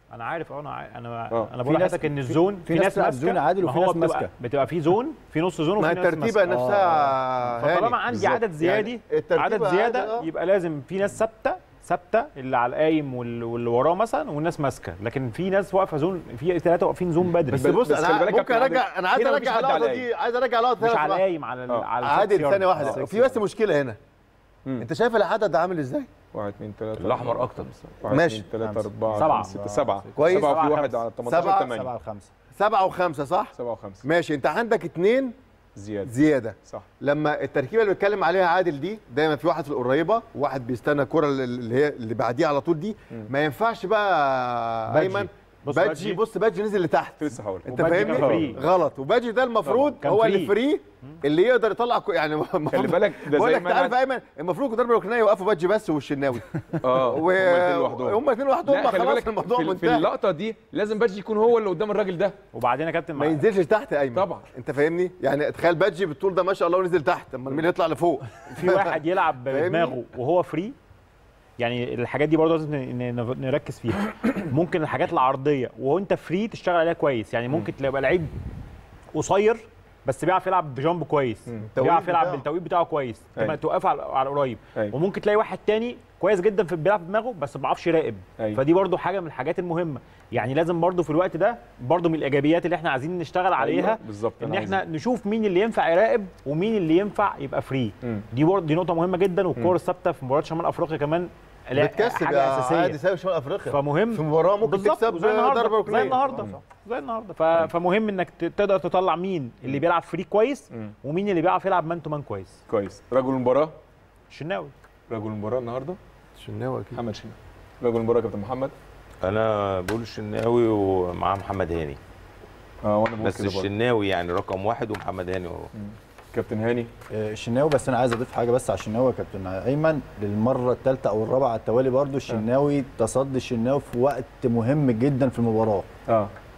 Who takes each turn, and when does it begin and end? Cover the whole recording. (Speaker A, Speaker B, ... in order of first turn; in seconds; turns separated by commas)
Speaker A: 0.1-6.5, Speaker B: 1.6-4.3, Speaker C: 5.8-10.3, Speaker B: 6.5-7.2, Speaker A: 7.6-17.7, Speaker D: 17.5-20.1, Speaker C: 17.5-21.2, Speaker A: 20.8-23.4, Speaker C: 22.0-24.0, Speaker B: 22.9-23.4, Speaker C: 24.8-26.1, Speaker D: 26.3-31.9, Speaker E: 27.0-27.7, Speaker C: 28.1-28.5, Speaker B: 28.6-30.3, Speaker A: 29.1-29.6, Speaker C: 30.2-30.6, Speaker A: 30.2-31.0, Speaker C: 31.3-31.7, Speaker B: 31.3-32.3, Speaker C: 32.5-35.4, Speaker D: 33.5-34.0, Speaker D: 35.8-36.1, Speaker C: 36.0-60.1, Speaker A: 44.9-46.2, Speaker D: 47.2-48.6, Speaker A: 47.7-48.6, Speaker D: 49.7-50.0, Speaker A: 50.0-50.5, Speaker D: 52.7-54.0, Speaker D: 56.8-62.4, Speaker A: 62.5-63.5, Speaker C: 63.2-70.0, Speaker D: 64.1-64.5, Speaker A: 68.5-70.8, Speaker A: 71.6-78.3, Speaker A: 79.1-103.0, Speaker C: 81.7-82.4, Speaker D: 93.6-94.8, Speaker C: 101.8-106.5, Speaker A: 103.7-112.6, Speaker D: 112.7-113.7, Speaker A: 114.3-114.7, Speaker D: 115.1-116.0, Speaker C: 116.4-117.0, Speaker D: 116.9-118.7, Speaker E: 119.2-122.0, Speaker D: 122.8-123.7, Speaker E: 123.2-125.7, Speaker D: 125.8-126.9, Speaker B: 127.1-135.9, Speaker D: 136.1-136.3